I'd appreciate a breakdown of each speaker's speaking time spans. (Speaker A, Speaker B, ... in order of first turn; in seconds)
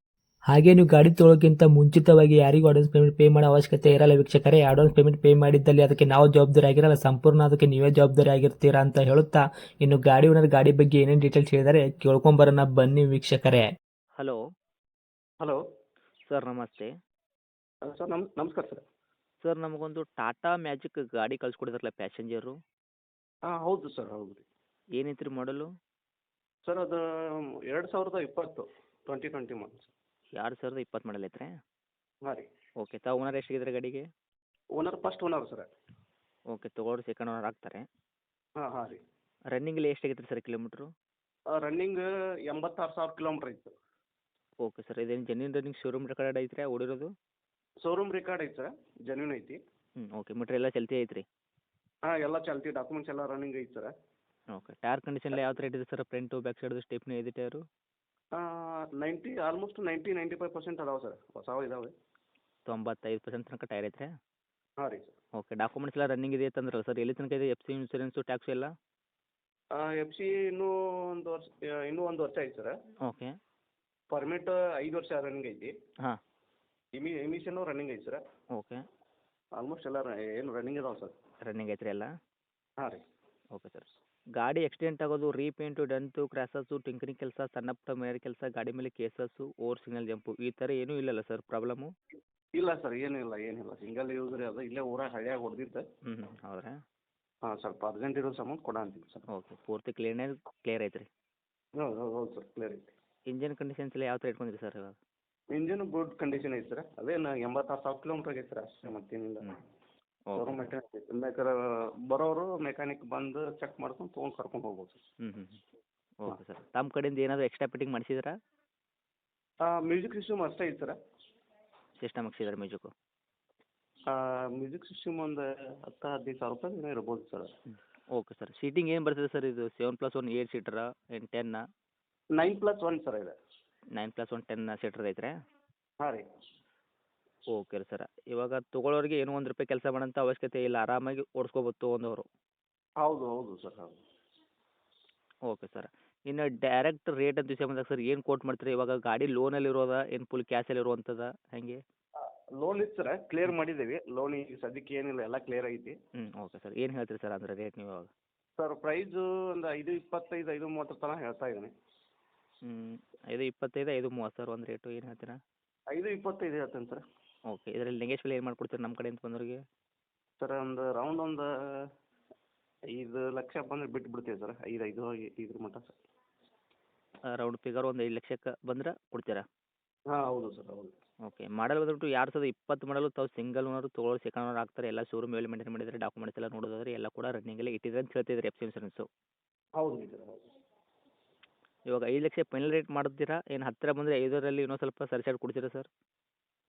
Speaker A: 0.5-13.7
Speaker B: 16.3-16.9, 19.4-22.6, 25.0-25.7, 30.4-31.5, 32.8-34.0, 36.5-37.9, 39.5-40.9, 44.6-47.1, 50.0-51.2, 54.5-57.6, 62.7-64.1, 65.4-68.7, 73.0-73.3, 78.6-78.8, 81.5-82.1, 83.5-83.9, 84.4-91.9, 96.1-96.8, 99.3-101.1, 103.3-105.0, 110.3-110.7, 115.2-115.6, 116.2-118.3, 122.0-122.9, 128.2-131.6, 134.0-135.3, 137.5-142.3, 145.5-151.8, 156.2-158.1, 162.6-165.4, 167.5-169.6, 177.3-179.4, 181.3-189.1, 191.9-195.9
Speaker C: 17.9-18.8, 23.5-24.4, 26.7-29.9, 34.8-35.7, 38.6-39.0, 41.5-43.7, 47.8-49.6, 52.1-53.9, 58.4-61.9, 64.8-65.2, 69.8-72.8, 74.1-75.7, 77.0-78.2, 79.6-81.2, 82.8-83.0, 92.6-95.8, 97.5-99.3, 101.8-102.9, 105.5-109.5, 110.3-115.0, 119.7-121.0, 124.1-127.5, 132.3-133.4, 143.0-144.0, 152.2-156.0, 158.6-161.7, 165.9-167.0, 170.4-171.5, 172.9-176.0, 180.1-180.9, 189.8-190.4